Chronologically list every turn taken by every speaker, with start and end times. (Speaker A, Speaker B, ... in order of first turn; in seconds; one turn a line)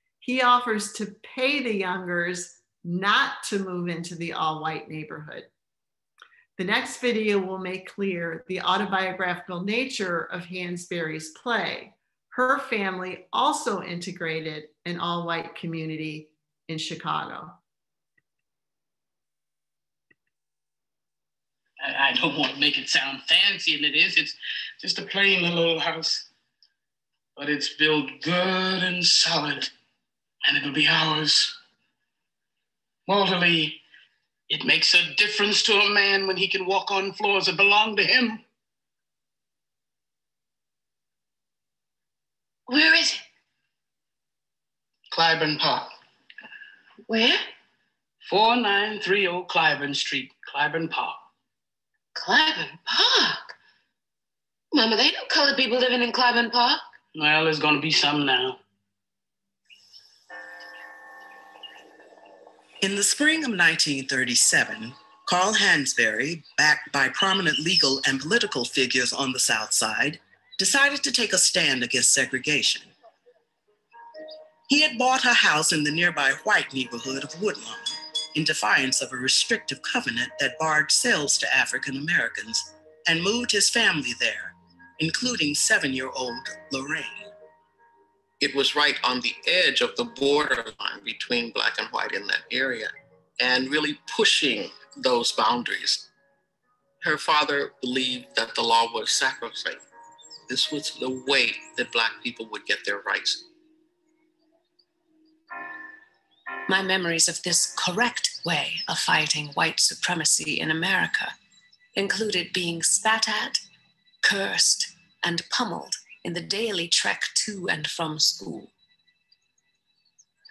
Speaker A: 0.2-5.5
Speaker A: 6.6-17.6
Speaker B: 21.8-26.3
Speaker B: 27.4-29.7
Speaker B: 30.4-31.6
Speaker B: 33.1-33.8
Speaker B: 34.5-38.4
Speaker C: 42.7-43.2
Speaker B: 45.1-45.9
Speaker C: 47.1-47.4
Speaker B: 48.2-51.2
Speaker C: 52.2-53.4
Speaker C: 54.7-56.8
Speaker B: 57.1-58.6
Speaker D: 62.8-72.9
Speaker D: 74.7-87.3
Speaker E: 88.4-96.1
Speaker E: 97.0-99.8
Speaker E: 100.5-103.5
Speaker C: 106.7-111.3
Speaker C: 112.0-113.6
Speaker C: 114.2-118.7